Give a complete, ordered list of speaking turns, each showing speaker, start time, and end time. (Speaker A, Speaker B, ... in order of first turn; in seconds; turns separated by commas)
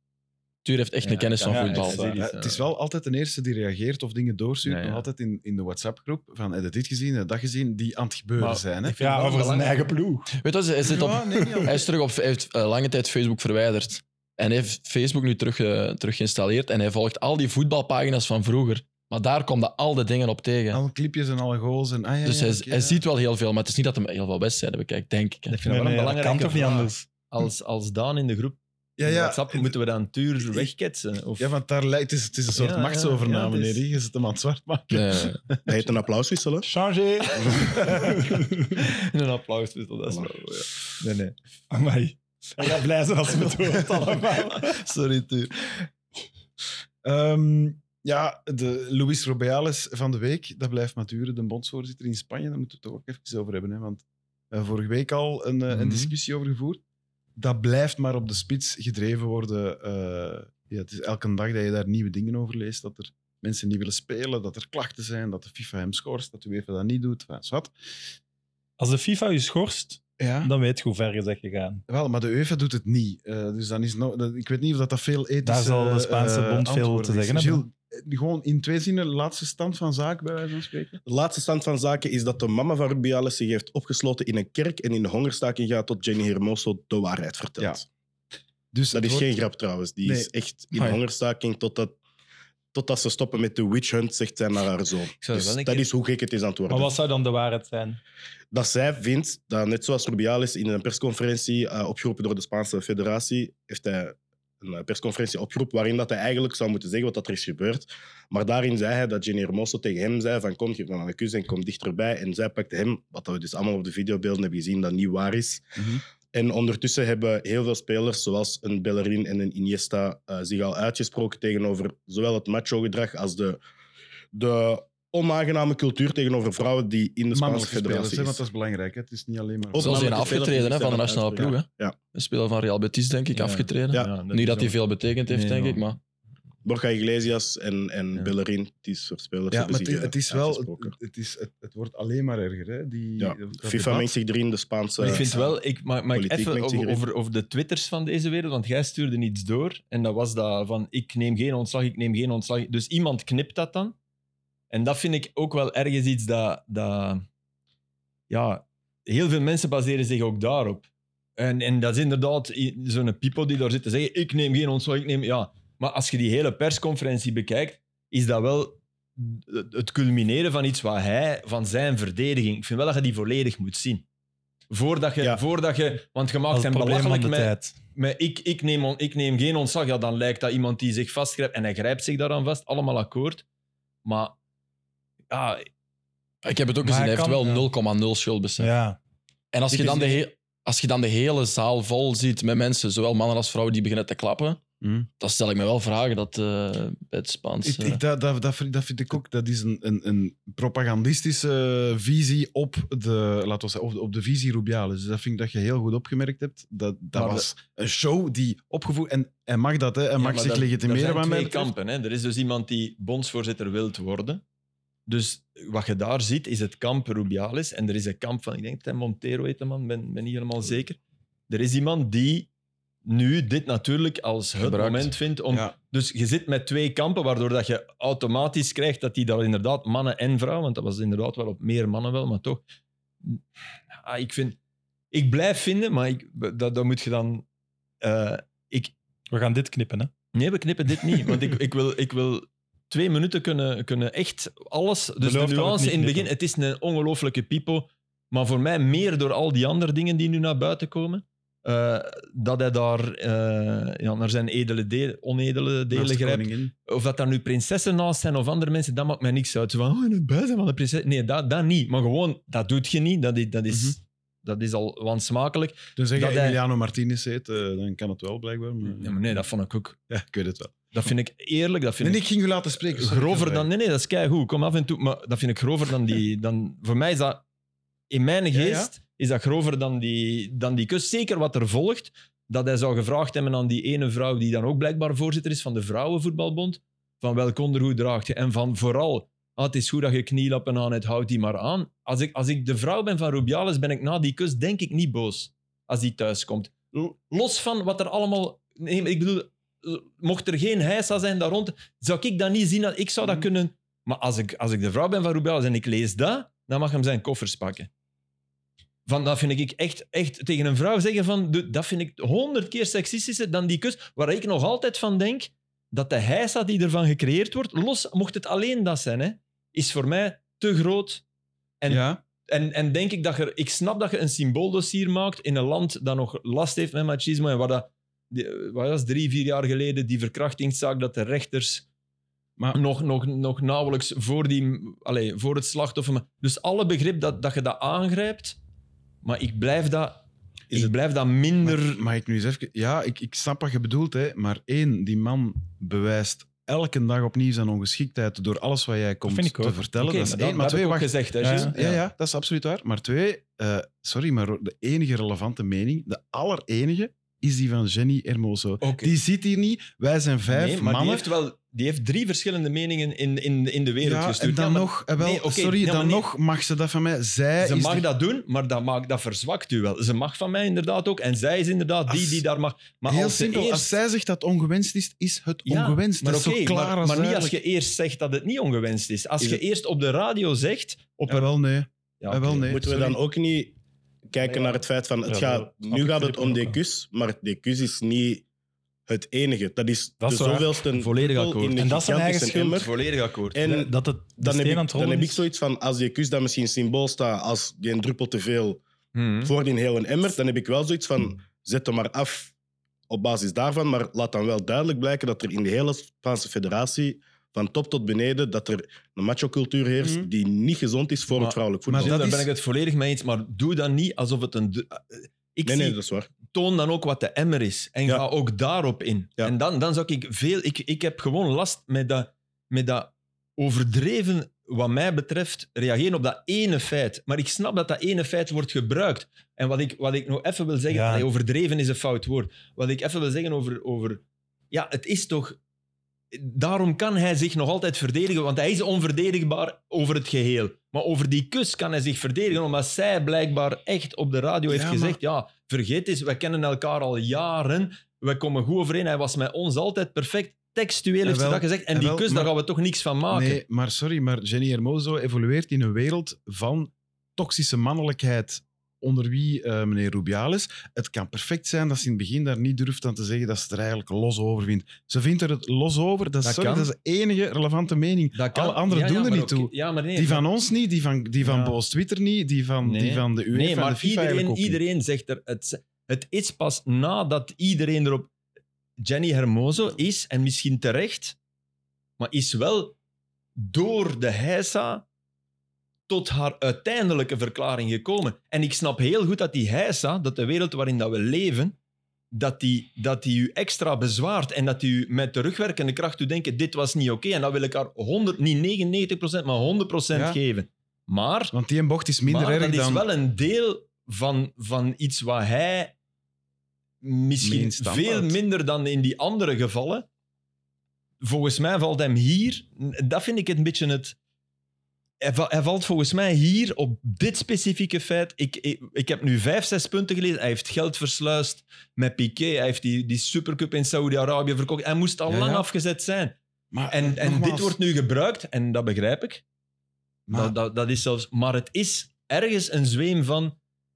Speaker A: 0.6-2.1, Speaker B: 1.0-2.7, Speaker C: 1.5-2.1, Speaker D: 2.0-8.9, Speaker B: 4.6-5.0, Speaker B: 8.4-9.9, Speaker C: 9.0-10.4, Speaker A: 10.4-20.8, Speaker D: 10.8-11.9, Speaker D: 20.7-23.0, Speaker A: 22.2-25.6, Speaker B: 25.5-31.5, Speaker C: 25.6-27.1, Speaker D: 29.0-29.8, Speaker D: 30.4-30.7, Speaker D: 31.4-35.6, Speaker B: 32.5-33.8, Speaker A: 34.9-35.4, Speaker E: 35.6-36.7, Speaker C: 36.6-38.8, Speaker D: 37.4-37.9, Speaker B: 37.5-38.2, Speaker B: 38.7-41.4, Speaker C: 41.7-44.8, Speaker B: 43.3-45.9, Speaker D: 47.0-56.8, Speaker B: 55.7-56.1, Speaker D: 57.4-67.7, Speaker C: 68.8-71.8, Speaker D: 70.2-70.5, Speaker D: 71.9-81.0, Speaker C: 75.4-77.6, Speaker E: 81.0-87.9, Speaker D: 88.7-89.3, Speaker E: 88.9-92.0, Speaker E: 92.7-96.9, Speaker B: 95.2-95.9, Speaker C: 96.7-98.0, Speaker E: 98.5-115.7, Speaker E: 116.3-123.6, Speaker E: 124.3-128.4, Speaker D: 127.3-130.4, Speaker E: 129.7-131.9, Speaker A: 129.8-136.0, Speaker B: 133.3-135.9, Speaker E: 136.6-140.9, Speaker D: 139.5-144.1, Speaker E: 143.2-145.6, Speaker B: 145.0-153.9, Speaker E: 146.1-147.0, Speaker B: 154.7-157.2, Speaker B: 158.3-174.0, Speaker B: 174.7-183.4, Speaker C: 176.5-177.8, Speaker B: 184.0-184.3, Speaker B: 185.3-185.7, Speaker A: 186.4-188.7, Speaker C: 186.8-187.7, Speaker C: 188.6-189.0, Speaker A: 189.5-194.6, Speaker D: 189.7-190.1, Speaker D: 194.8-195.1, Speaker A: 195.2-198.0, Speaker D: 197.6-211.7, Speaker B: 207.1-207.5, Speaker B: 210.2-214.4, Speaker B: 215.1-221.0, Speaker B: 221.5-222.5, Speaker B: 223.0-232.6, Speaker A: 224.6-225.1, Speaker B: 233.2-234.6, Speaker B: 235.1-237.4, Speaker B: 238.0-238.9, Speaker C: 239.3-240.1, Speaker B: 240.3-266.6, Speaker C: 245.2-246.3, Speaker D: 255.9-256.7, Speaker D: 263.7-263.9, Speaker D: 266.0-269.2, Speaker B: 268.8-270.0, Speaker D: 270.1-271.1, Speaker B: 270.9-272.3, Speaker D: 272.0-273.7, Speaker B: 272.8-277.4, Speaker B: 278.1-307.9, Speaker D: 278.5-278.9, Speaker B: 309.1-321.2, Speaker B: 321.8-331.8, Speaker D: 321.9-322.2, Speaker B: 332.7-338.6, Speaker B: 339.2-342.0, Speaker D: 341.6-361.3, Speaker C: 349.2-349.8, Speaker B: 350.0-352.0, Speaker C: 351.4-351.7, Speaker B: 358.8-359.1, Speaker B: 360.5-366.2, Speaker D: 364.0-368.1, Speaker B: 367.6-373.9, Speaker D: 372.1-372.4, Speaker D: 373.1-377.6, Speaker B: 375.6-381.5, Speaker D: 381.3-383.2, Speaker B: 382.2-382.7, Speaker E: 382.7-383.8, Speaker E: 384.3-388.4, Speaker C: 384.4-386.8, Speaker E: 389.1-392.9, Speaker C: 390.2-390.8, Speaker B: 390.9-391.9, Speaker C: 391.8-392.9, Speaker B: 392.7-393.6, Speaker E: 393.5-398.8, Speaker C: 393.6-395.4, Speaker B: 399.1-399.5, Speaker E: 399.4-402.5, Speaker E: 403.1-412.2, Speaker D: 410.0-410.3, Speaker D: 411.4-412.5, Speaker B: 411.9-435.6, Speaker E: 415.6-416.3, Speaker C: 430.9-431.2, Speaker B: 436.3-453.6, Speaker D: 444.7-445.2, Speaker D: 451.2-452.5, Speaker D: 453.3-474.8, Speaker B: 466.4-466.9, Speaker B: 468.3-470.5, Speaker B: 471.4-471.8, Speaker B: 472.8-478.3, Speaker B: 479.0-481.4, Speaker B: 482.2-482.9, Speaker B: 483.6-485.0, Speaker B: 486.1-491.8, Speaker B: 492.3-501.5, Speaker D: 500.1-500.4, Speaker D: 501.5-503.0, Speaker B: 502.2-505.9, Speaker B: 507.0-510.1, Speaker D: 507.4-508.4, Speaker B: 511.2-514.1, Speaker B: 515.2-526.4, Speaker D: 525.3-525.7, Speaker D: 526.7-527.8, Speaker B: 526.9-529.4, Speaker D: 530.3-530.5, Speaker B: 530.3-533.5